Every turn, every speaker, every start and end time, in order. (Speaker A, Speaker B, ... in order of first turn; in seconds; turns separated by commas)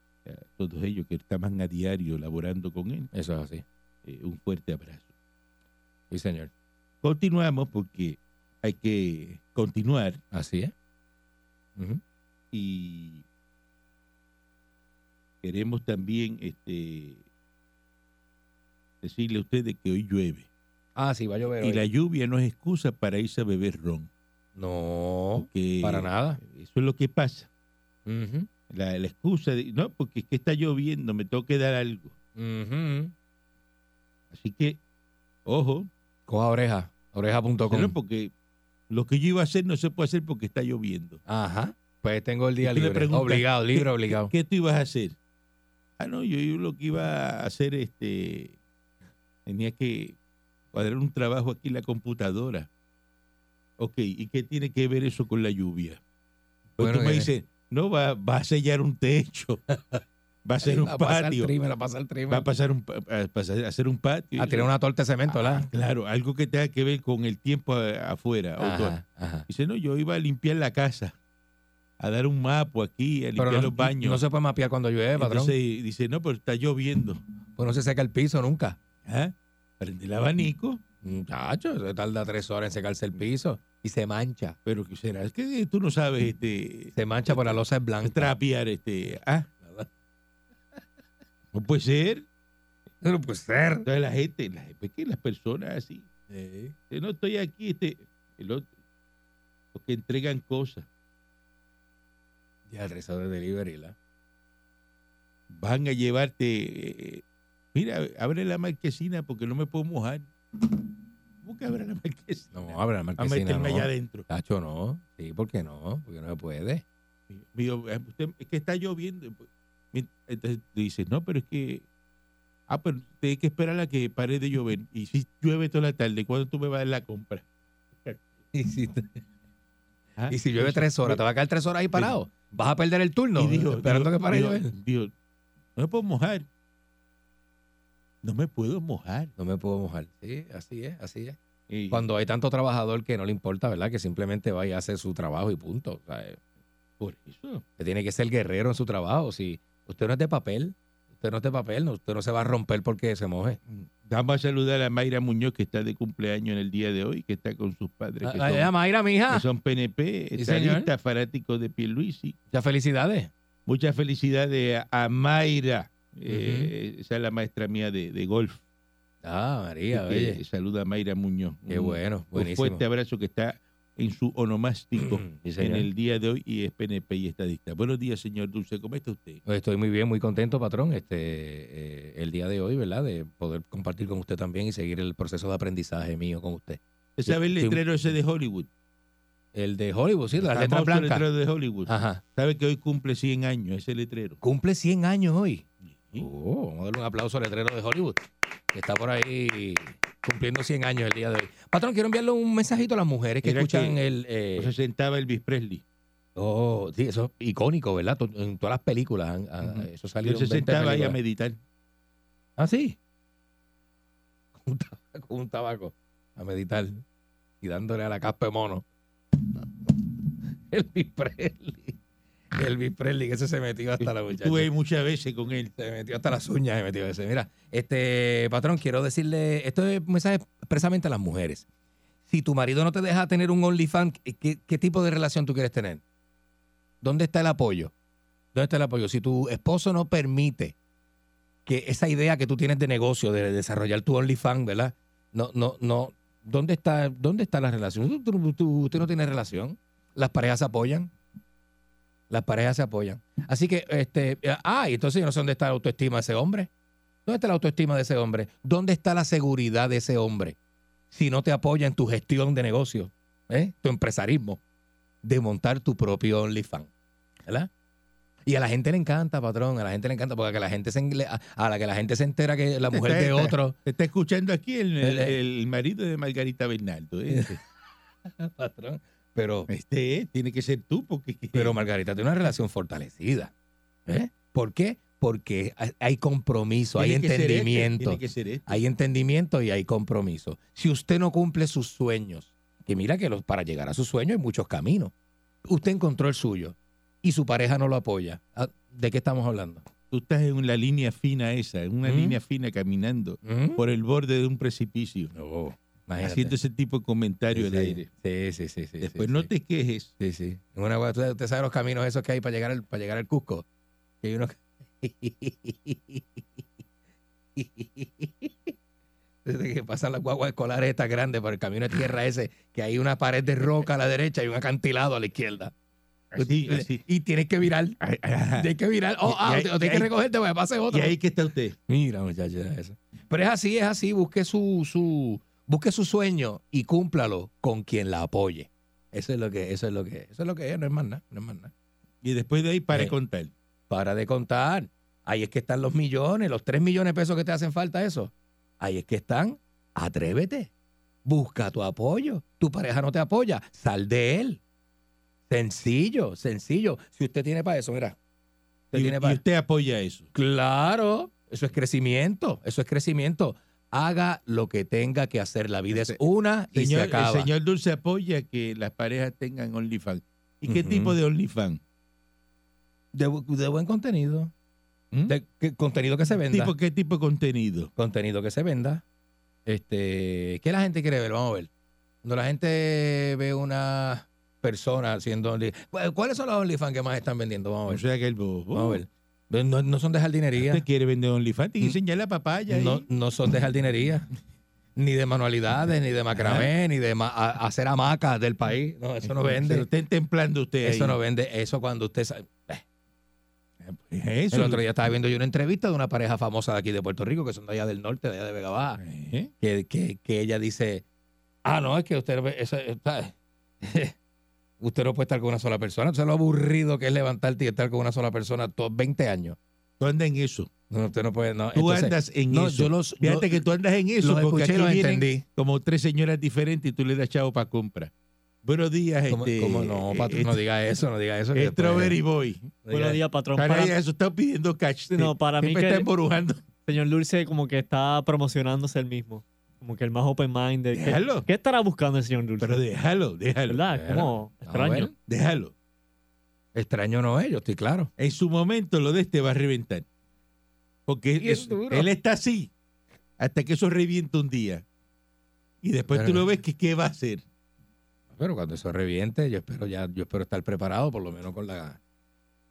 Speaker A: 0.2-3.1, Speaker B: 3.1-3.6, Speaker A: 4.0-5.1, Speaker B: 6.1-6.5, Speaker A: 7.0-10.2, Speaker B: 10.3-10.7, Speaker A: 12.5-13.2, Speaker A: 15.4-17.2, Speaker A: 19.0-20.5, Speaker B: 21.0-21.9, Speaker A: 21.6-24.1, Speaker B: 24.6-26.4, Speaker A: 25.4-27.5, Speaker B: 28.1-28.5, Speaker A: 28.7-32.1, Speaker B: 32.4-33.1, Speaker A: 34.3-34.8, Speaker A: 35.5-35.9, Speaker B: 36.3-37.9, Speaker A: 37.7-38.3, Speaker A: 38.9-41.2, Speaker B: 41.3-44.3, Speaker A: 42.6-45.2, Speaker A: 46.0-48.6, Speaker A: 49.5-50.2, Speaker A: 50.7-52.7, Speaker A: 53.8-56.0, Speaker A: 56.8-59.6, Speaker B: 56.8-57.3, Speaker B: 59.7-60.0, Speaker A: 60.5-61.5, Speaker B: 60.6-62.5, Speaker A: 62.3-64.7, Speaker B: 64.4-65.7, Speaker A: 65.3-71.2, Speaker B: 68.6-69.5, Speaker A: 72.0-74.2, Speaker B: 73.4-75.5, Speaker A: 75.2-77.2, Speaker B: 77.6-78.8, Speaker A: 79.0-80.8, Speaker B: 81.0-84.6, Speaker A: 84.7-89.5, Speaker B: 87.0-88.3, Speaker B: 89.6-89.9, Speaker A: 91.5-92.3, Speaker B: 93.0-93.9, Speaker A: 93.9-96.1, Speaker B: 96.3-96.8, Speaker A: 96.9-98.7, Speaker A: 99.7-100.9, Speaker B: 102.7-104.0, Speaker A: 105.5-107.2, Speaker A: 107.7-110.3, Speaker A: 111.4-114.3, Speaker B: 112.5-116.8, Speaker A: 117.3-121.8, Speaker A: 122.7-127.5, Speaker B: 128.5-129.2, Speaker A: 130.2-131.2, Speaker B: 130.3-134.7, Speaker A: 133.4-135.1, Speaker A: 135.8-136.5, Speaker A: 138.2-139.3, Speaker B: 139.4-141.4, Speaker A: 141.7-142.1, Speaker B: 141.9-146.4, Speaker A: 147.0-147.6, Speaker B: 147.8-153.6, Speaker A: 153.7-158.7, Speaker B: 158.2-159.5, Speaker A: 159.3-162.4, Speaker B: 160.4-160.9, Speaker B: 162.5-163.3, Speaker A: 163.7-168.6, Speaker B: 166.3-166.7, Speaker B: 169.2-170.4, Speaker A: 169.9-179.4, Speaker B: 171.7-172.8, Speaker B: 175.0-175.9, Speaker B: 179.5-187.8, Speaker A: 187.2-188.7, Speaker B: 189.5-191.3, Speaker A: 190.4-194.4, Speaker B: 191.9-192.2, Speaker B: 194.4-204.7, Speaker A: 195.8-196.3, Speaker A: 203.4-204.0, Speaker A: 204.6-205.8, Speaker B: 206.4-211.2, Speaker A: 209.6-211.6, Speaker B: 212.6-213.0, Speaker B: 214.6-217.0, Speaker B: 217.6-219.9, Speaker B: 220.7-222.0, Speaker B: 222.6-224.7, Speaker A: 224.0-225.7, Speaker B: 225.8-231.7, Speaker B: 232.3-236.0, Speaker B: 237.0-237.9, Speaker B: 238.6-240.8, Speaker B: 241.7-251.1, Speaker B: 252.3-256.7, Speaker B: 257.3-260.6, Speaker B: 261.1-264.6, Speaker B: 265.2-266.9, Speaker B: 268.5-273.8, Speaker A: 272.9-277.6, Speaker B: 275.0-275.4, Speaker B: 277.3-277.6, Speaker B: 278.3-279.7, Speaker A: 279.7-281.8, Speaker B: 281.5-283.5, Speaker B: 284.1-295.1, Speaker A: 287.0-288.8, Speaker B: 295.7-299.9, Speaker A: 300.1-305.3, Speaker B: 302.0-302.4, Speaker B: 303.4-303.8, Speaker B: 305.3-306.6, Speaker A: 306.2-308.0, Speaker B: 307.5-309.5, Speaker A: 309.0-310.1, Speaker B: 310.2-313.6, Speaker B: 314.2-316.6, Speaker B: 317.6-318.7, Speaker B: 319.4-325.7, Speaker A: 326.3-327.0, Speaker B: 326.4-328.0, Speaker A: 328.0-328.7, Speaker B: 328.6-331.1, Speaker A: 329.2-330.1, Speaker A: 330.9-331.8, Speaker B: 331.9-341.7, Speaker A: 342.2-343.5, Speaker B: 343.9-350.7, Speaker B: 351.3-354.6, Speaker B: 355.5-358.2, Speaker B: 358.9-359.4, Speaker A: 358.9-360.3, Speaker B: 360.3-367.5, Speaker A: 365.9-366.2, Speaker A: 366.7-371.8, Speaker B: 370.7-371.2, Speaker B: 373.1-374.5, Speaker B: 375.3-376.7, Speaker A: 376.5-377.9, Speaker B: 378.0-379.0, Speaker B: 379.7-381.7, Speaker B: 382.2-388.0, Speaker A: 387.9-389.0, Speaker B: 388.7-390.8, Speaker A: 390.6-393.1, Speaker B: 392.7-394.3, Speaker B: 395.0-399.9, Speaker A: 396.3-396.7, Speaker A: 399.2-401.2, Speaker B: 400.8-402.8, Speaker A: 403.8-404.8, Speaker B: 404.5-409.0, Speaker A: 409.0-409.5, Speaker B: 409.6-411.0, Speaker B: 411.6-414.1, Speaker B: 414.8-419.6, Speaker A: 420.0-420.7, Speaker B: 420.9-423.6, Speaker A: 421.8-428.1, Speaker B: 424.2-425.4, Speaker A: 428.6-430.6, Speaker B: 429.3-432.2, Speaker A: 431.5-436.6, Speaker C: 432.9-433.9, Speaker C: 435.1-436.1, Speaker C: 436.9-442.8, Speaker A: 440.9-441.5, Speaker A: 442.6-443.9, Speaker C: 443.7-445.1, Speaker B: 443.9-445.1, Speaker A: 445.1-445.7, Speaker B: 446.7-448.1, Speaker A: 448.2-450.1, Speaker A: 451.1-452.7, Speaker B: 451.4-452.1, Speaker A: 453.4-454.9, Speaker A: 455.8-457.4, Speaker B: 456.1-456.4, Speaker B: 458.4-462.0